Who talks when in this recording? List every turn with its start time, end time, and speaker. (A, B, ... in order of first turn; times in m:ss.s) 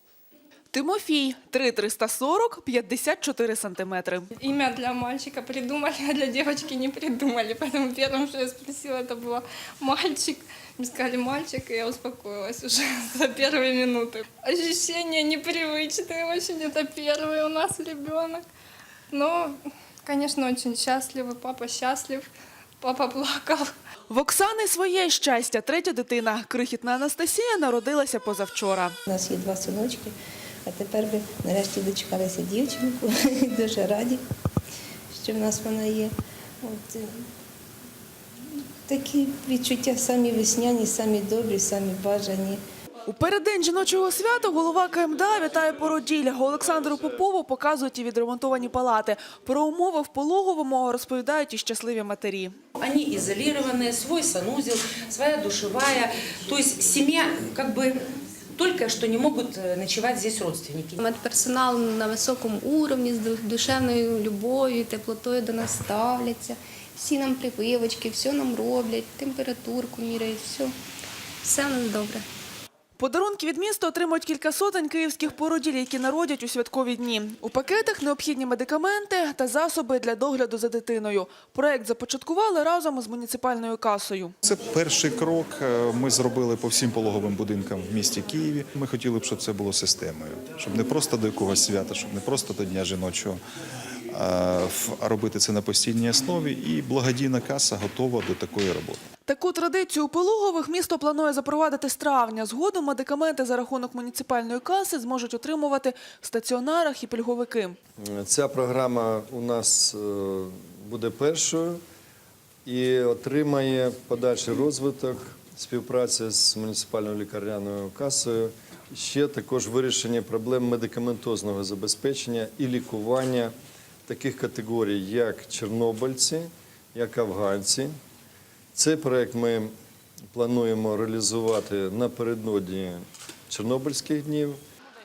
0:00.7-0:04.3 A
0:04.4-0:18.4 B
0:19.1-0:19.5 B
0:20.0-0:22.3 B
0:22.8-0:23.7 B
0:24.1-0:28.9 A
0:29.1-0:30.1 C
0:30.6-0:34.2 C
0:35.1-0:37.2 C
0:38.9-0:42.6 C
0:43.1-0:52.5 A
0:52.8-0:58.0 D
0:58.5-1:01.0 D
1:01.0-1:10.7 E
1:11.4-1:12.2 E
1:13.0-1:24.3 A
1:24.4-1:33.4 F
1:34.1-1:39.0 F
1:39.3-1:47.8 A
1:48.0-1:51.8 G
1:52.6-2:03.5 G
2:04.1-2:07.9 G
2:08.7-2:09.7 G
2:10.3-2:14.6 G